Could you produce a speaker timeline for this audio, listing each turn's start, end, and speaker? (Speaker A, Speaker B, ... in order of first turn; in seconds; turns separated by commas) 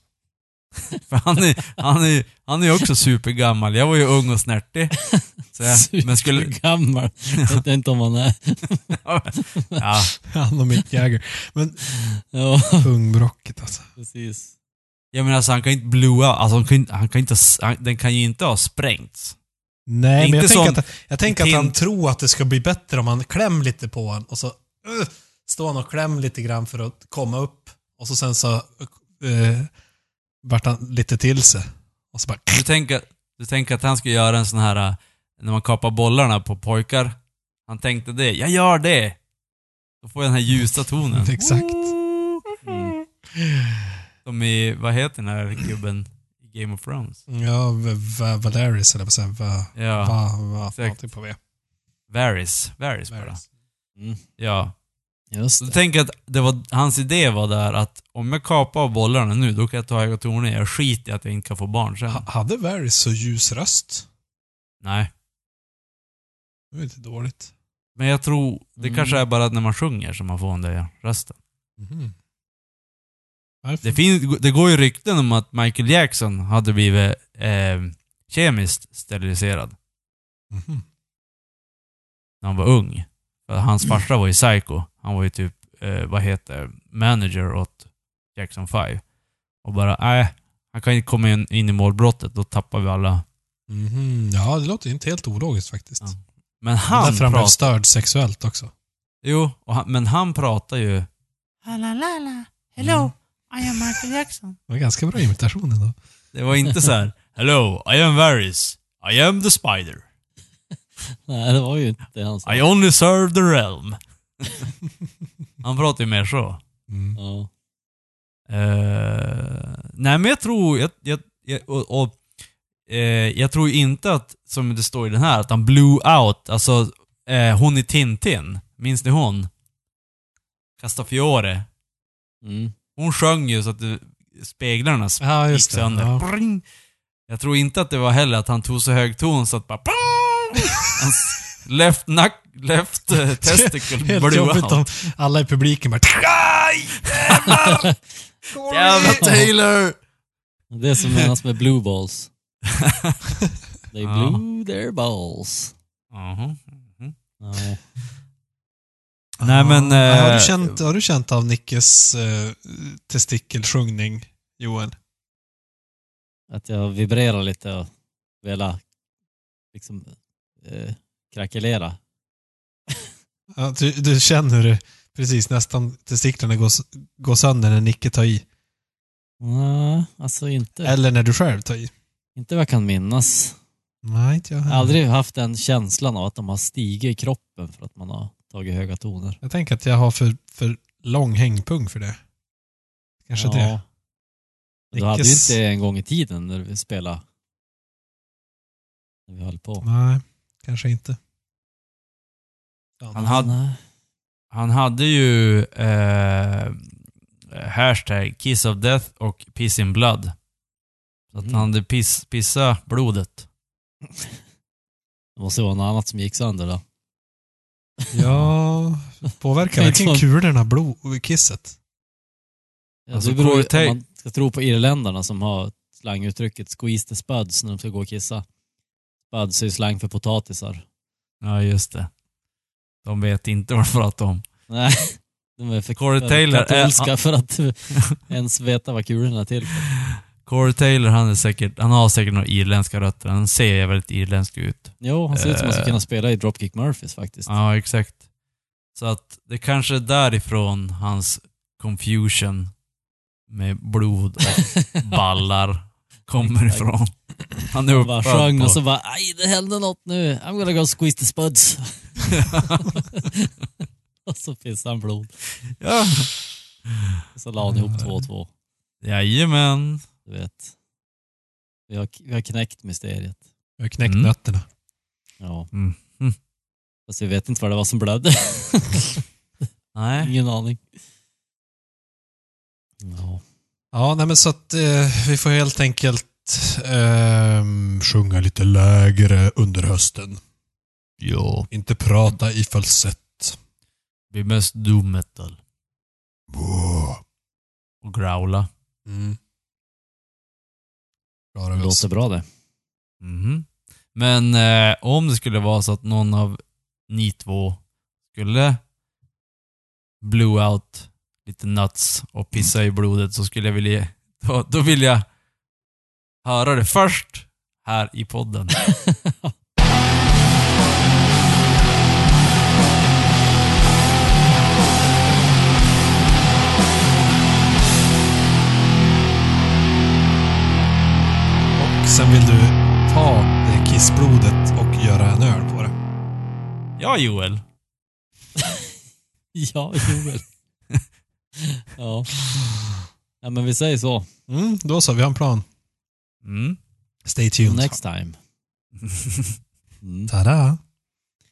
Speaker A: 1.1-5.0, Speaker B: 5.0-8.9, Speaker A: 5.5-6.5, Speaker A: 8.9-10.1, Speaker B: 9.6-9.8, Speaker C: 10.3-11.8, Speaker B: 11.9-12.9, Speaker C: 12.8-13.9, Speaker B: 14.0-14.5, Speaker A: 15.1-19.4, Speaker C: 19.9-29.7, Speaker A: 20.2-21.7, Speaker C: 30.4-32.6, Speaker A: 32.5-37.1, Speaker A: 37.7-39.2, Speaker A: 40.0-42.5, Speaker C: 41.1-42.0, Speaker B: 42.6-43.0, Speaker C: 42.7-44.0, Speaker A: 44.2-47.2, Speaker C: 47.3-51.4, Speaker A: 49.8-50.2, Speaker A: 52.1-53.4, Speaker C: 53.1-53.4, Speaker B: 54.0-54.2, Speaker A: 54.4-54.7, Speaker B: 55.3-55.8, Speaker A: 55.6-62.2, Speaker C: 62.1-64.1, Speaker A: 64.8-65.1, Speaker C: 66.7-67.5, Speaker A: 68.0-71.4, Speaker B: 68.8-69.2, Speaker C: 71.8-72.2, Speaker C: 73.6-74.0, Speaker A: 73.8-79.8, Speaker C: 80.5-80.8, Speaker A: 82.4-87.8, Speaker A: 88.3-89.0, Speaker A: 89.6-93.2, Speaker C: 93.7-96.2, Speaker A: 96.0-97.6, Speaker C: 96.9-98.7, Speaker A: 99.2-101.1, Speaker A: 101.7-104.6, Speaker C: 102.8-103.1, Speaker C: 104.7-106.0, Speaker A: 106.3-110.0, Speaker B: 111.1-112.6, Speaker A: 112.5-114.7, Speaker A: 115.6-116.6, Speaker C: 116.9-117.2, Speaker B: 117.2-117.5, Speaker A: 118.5-122.2, Speaker A: 122.9-129.5, Speaker A: 130.8-131.7, Speaker B: 132.4-132.8, Speaker A: 133.0-136.6, Speaker C: 135.2-136.2, Speaker A: 137.3-144.8, Speaker C: 143.4-147.9, Speaker A: 147.1-147.7, Speaker C: 148.5-149.5, Speaker A: 148.7-150.0, Speaker B: 149.1-149.4, Speaker B: 150.7-152.3, Speaker A: 152.7-153.2, Speaker B: 153.9-155.7, Speaker A: 154.0-154.4, Speaker A: 156.1-157.2, Speaker B: 157.4-157.8, Speaker A: 159.4-160.8, Speaker C: 159.4-164.9, Speaker B: 166.5-167.9, Speaker B: 168.4-168.8, Speaker B: 169.7-172.0, Speaker C: 173.5-178.4, Speaker B: 179.4-180.9, Speaker C: 180.8-181.9, Speaker B: 182.4-183.6, Speaker C: 184.0-185.0, Speaker B: 184.7-189.4, Speaker C: 189.4-192.2, Speaker C: 193.3-193.8, Speaker B: 193.4-193.8, Speaker C: 194.9-195.6, Speaker B: 194.9-197.2, Speaker B: 199.3-199.9, Speaker C: 199.8-201.2, Speaker C: 203.0-203.4, Speaker B: 203.2-203.8, Speaker A: 203.2-203.5, Speaker A: 204.5-206.8, Speaker A: 207.5-210.3, Speaker A: 211.3-213.5, Speaker B: 211.3-211.7, Speaker B: 215.4-216.8, Speaker C: 218.1-221.8, Speaker A: 218.3-218.5, Speaker B: 219.7-220.2, Speaker B: 223.1-228.4, Speaker A: 223.1-224.0, Speaker B: 229.3-230.8, Speaker A: 231.4-232.1, Speaker A: 233.1-234.4, Speaker B: 234.7-239.9, Speaker A: 236.0-237.1, Speaker A: 240.1-246.0, Speaker B: 245.0-247.5, Speaker A: 247.5-248.2, Speaker A: 249.0-252.7, Speaker A: 253.5-258.8, Speaker B: 254.5-255.2, Speaker B: 256.4-256.9, Speaker B: 257.9-263.5, Speaker A: 262.3-262.9, Speaker B: 264.3-265.3, Speaker A: 265.8-266.4, Speaker B: 267.4-268.5, Speaker C: 267.7-268.1, Speaker A: 269.0-270.0, Speaker B: 270.3-270.7, Speaker B: 271.9-273.4, Speaker C: 273.8-274.7, Speaker A: 274.0-274.3, Speaker B: 275.4-275.7, Speaker A: 275.7-276.4, Speaker B: 277.1-279.2, Speaker A: 279.9-280.3, Speaker B: 280.2-280.8, Speaker B: 283.0-283.4, Speaker C: 283.9-290.4, Speaker A: 291.2-291.7, Speaker C: 291.7-293.6, Speaker A: 294.3-295.6, Speaker C: 296.5-297.2, Speaker A: 298.0-298.7, Speaker C: 299.1-299.4, Speaker C: 301.6-302.1, Speaker B: 301.7-302.5, Speaker A: 303.2-308.8, Speaker A: 310.2-315.2, Speaker A: 316.4-318.7, Speaker B: 319.1-319.5, Speaker C: 331.8-335.9, Speaker A: 337.0-337.6, Speaker B: 338.6-338.9, Speaker B: 339.6-340.5, Speaker B: 341.6-342.3, Speaker B: 343.4-344.3, Speaker C: 344.5-345.7, Speaker A: 346.4-346.8, Speaker C: 347.2-347.9, Speaker B: 347.6-348.4, Speaker A: 349.0-349.6, Speaker B: 350.0-350.3, Speaker C: 350.3-350.8